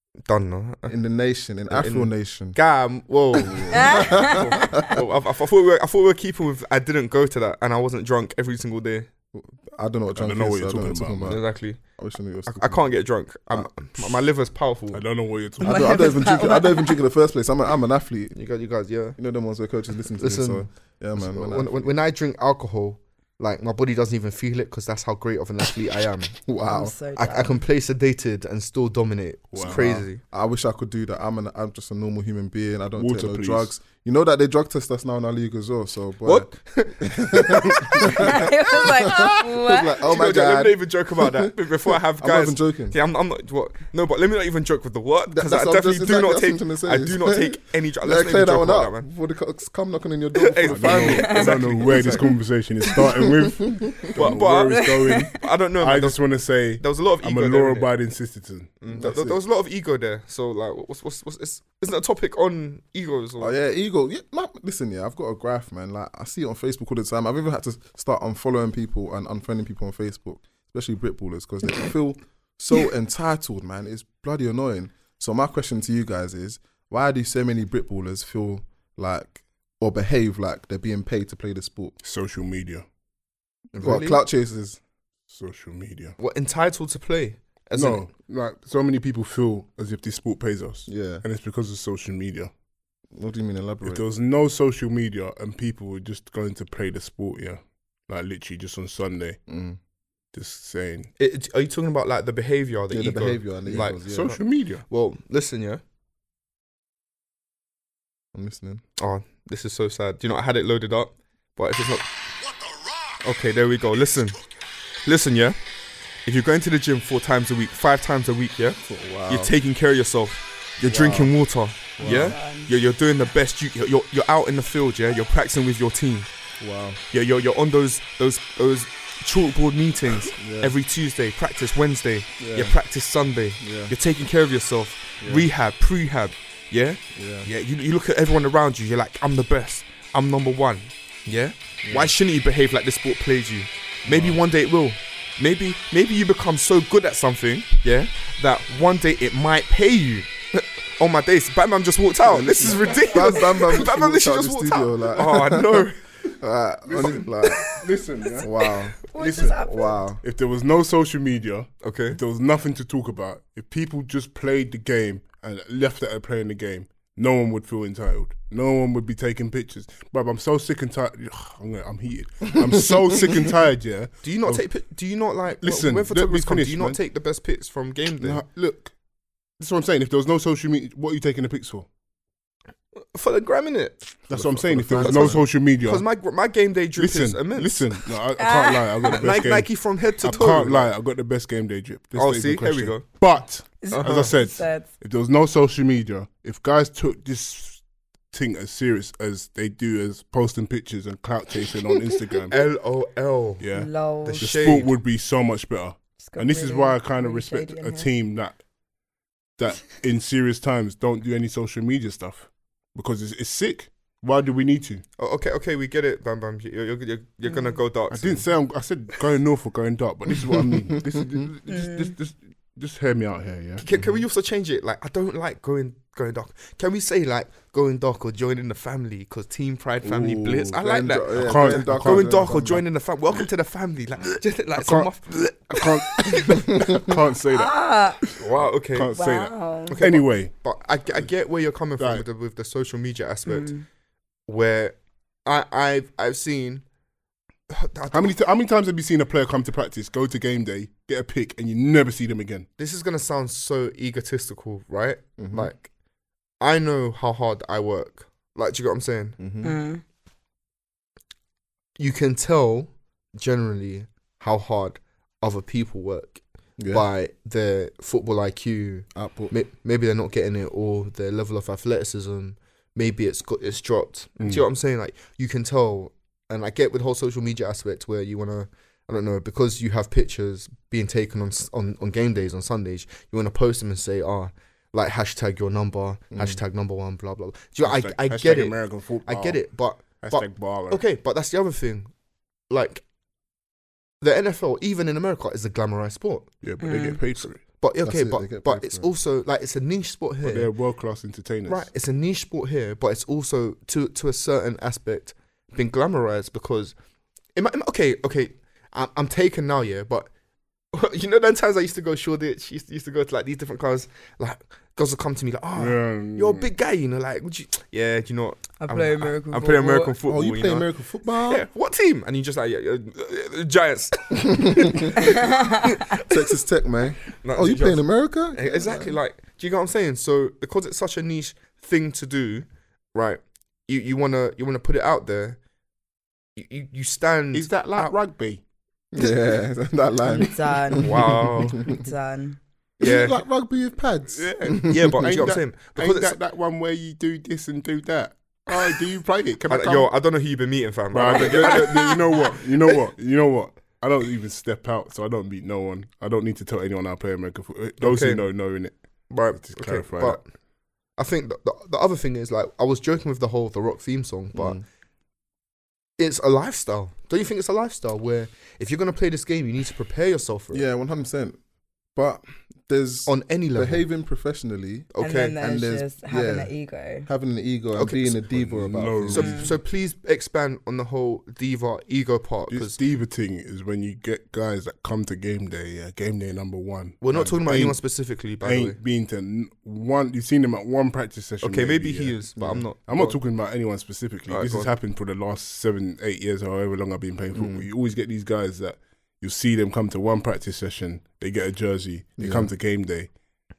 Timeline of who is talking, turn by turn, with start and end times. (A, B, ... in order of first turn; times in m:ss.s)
0:00.3-0:00.9 A
0:00.9-0:02.6 B
0:01.7-0:09.1 A
0:03.3-0:05.0 B
0:03.7-0:04.8 C
0:09.3-0:12.9 B
0:10.1-0:11.4 D
0:11.3-0:11.8 A
0:12.4-0:15.0 A
0:14.9-0:16.2 D
0:15.6-0:17.0 C
0:15.6-0:18.4 B
0:18.3-0:19.2 A
0:19.2-0:21.9 B
0:20.2-0:26.4 A
0:26.4-0:27.0 B
0:26.7-0:27.6 C
0:27.2-0:30.2 A
0:29.5-0:29.8 D
0:29.6-0:43.0 B
0:33.0-0:33.7 D
0:36.2-0:39.4 A
0:38.0-0:40.1 C
0:40.1-0:49.0 A
0:45.3-0:52.1 B
0:50.4-0:52.3 A
0:50.7-0:59.3 D
0:51.1-0:52.3 C
0:52.8-0:53.4 C
0:53.6-0:54.1 B
0:54.1-0:57.9 A
0:54.7-0:55.3 C
0:58.8-1:03.6 A
0:58.9-0:59.2 B
1:03.4-1:22.0 B
1:22.0-1:22.8 D
1:23.7-1:24.2 A
1:23.8-1:24.8 B
1:25.3-1:26.2 D
1:26.2-1:28.0 A
1:27.7-1:32.5 D
1:30.9-1:31.2 B
1:33.1-1:34.0 B
1:33.8-1:39.4 D
1:39.5-1:39.8 B
1:40.3-1:41.1 D
1:41.2-1:45.8 A
1:42.9-1:44.4 B
1:43.7-1:44.8 D
1:48.3-1:48.8 B
1:49.0-1:52.1 A
1:53.2-1:54.4 A
1:55.0-1:55.6 A
1:56.2-2:06.3 A
1:58.8-1:59.5 B
2:00.8-2:01.3 B
2:02.0-2:02.4 B
2:02.0-2:02.7 C
2:06.6-2:07.0 B
2:07.1-2:36.0 A
2:10.4-2:10.7 B
2:12.4-2:12.8 B
2:13.6-2:13.9 B
2:15.2-2:15.5 B
2:17.1-2:17.5 B
2:21.8-2:22.1 B
2:24.1-2:24.4 B
2:32.3-2:33.4 D
2:33.0-2:37.7 B
2:36.8-2:38.5 D
2:37.4-2:37.8 A
2:38.4-2:39.0 B
2:39.1-2:40.0 C
2:39.1-2:39.6 D
2:39.6-2:40.2 B
2:40.2-2:54.6 D
2:41.8-2:42.2 A
2:54.2-2:58.4 A
2:55.6-2:57.0 D
2:58.2-2:58.9 D
2:59.6-3:01.9 D
3:03.1-3:07.9 A
3:04.3-3:06.0 D
3:04.3-3:05.4 B
3:07.0-3:22.6 D
3:08.4-3:09.4 C
3:09.1-3:10.9 A
3:12.1-3:13.0 A
3:13.8-3:14.9 C
3:13.9-3:14.4 A
3:21.9-3:22.3 C
3:22.5-3:23.7 A
3:23.6-3:28.6 D
3:23.7-3:24.4 C
3:24.2-3:24.9 A
3:26.2-3:28.1 C
3:29.6-3:35.0 D
3:35.2-3:38.5 A
3:37.4-3:37.8 C
3:38.1-3:43.8 D
3:41.7-3:42.1 C
3:43.8-3:57.0 A
3:43.9-3:44.2 B
3:50.1-3:52.8 B
3:51.3-3:52.6 D
3:54.8-3:58.4 D
3:56.7-3:57.1 B
3:57.5-3:58.2 C
3:58.4-3:59.2 A
3:58.9-4:00.5 D
3:59.1-4:00.0 C
3:59.9-4:03.7 A
4:02.0-4:02.2 D
4:03.5-4:03.8 C
4:04.5-4:06.8 A
4:07.7-4:08.4 A
4:08.1-4:12.7 D
4:12.8-4:15.9 A
4:15.4-4:15.7 B
4:16.6-4:19.4 A
4:19.4-4:19.8 B
4:19.6-4:20.0 C
4:22.0-4:52.1 A
4:26.8-4:27.0 B
4:29.1-4:29.5 B
4:46.3-4:46.6 B
4:47.8-4:51.0 D
4:52.7-4:53.0 A
4:54.2-4:56.5 A
4:56.6-4:57.6 D
4:56.8-4:57.2 C
4:57.6-5:00.7 A
4:58.0-4:59.1 B
5:00.4-5:01.9 D
5:01.6-5:06.9 A
5:07.6-5:10.3 A
5:10.9-5:26.4 A
5:15.8-5:16.7 D
5:18.8-5:20.2 C
5:20.2-5:21.6 B
5:24.3-5:25.3 B
5:25.2-5:25.8 C
5:26.2-5:29.1 B
5:27.4-5:35.6 A
5:36.6-5:38.1 A
5:37.5-5:38.6 D
5:39.1-5:42.1 B
5:40.3-5:42.6 C
5:40.9-5:41.8 A
5:43.0-5:45.4 B
5:43.0-5:43.4 A
5:44.3-5:50.1 D
5:44.9-5:46.4 A
5:49.6-5:52.4 A
5:51.1-5:58.9 D
5:51.7-5:52.0 C
5:58.0-5:58.5 A
5:59.3-6:00.4 A
5:59.6-6:00.4 D
6:01.2-6:04.8 A
6:04.5-6:04.8 B
6:06.2-6:10.8 A
6:10.7-6:11.6 B
6:12.1-6:16.7 B
6:13.3-6:14.0 A
6:15.1-6:15.6 A
6:15.2-6:17.3 C
6:17.2-6:19.6 B
6:17.9-6:18.3 A
6:18.5-6:19.8 D
6:19.3-6:23.0 A
6:19.4-6:19.7 C
6:22.7-6:28.0 D
6:27.2-6:29.0 A
6:28.6-6:32.4 D
6:31.6-6:33.4 A
6:32.6-6:32.8 B
6:33.0-6:43.3 D
6:34.5-6:34.9 A
6:37.5-6:37.9 B
6:42.4-6:42.7 B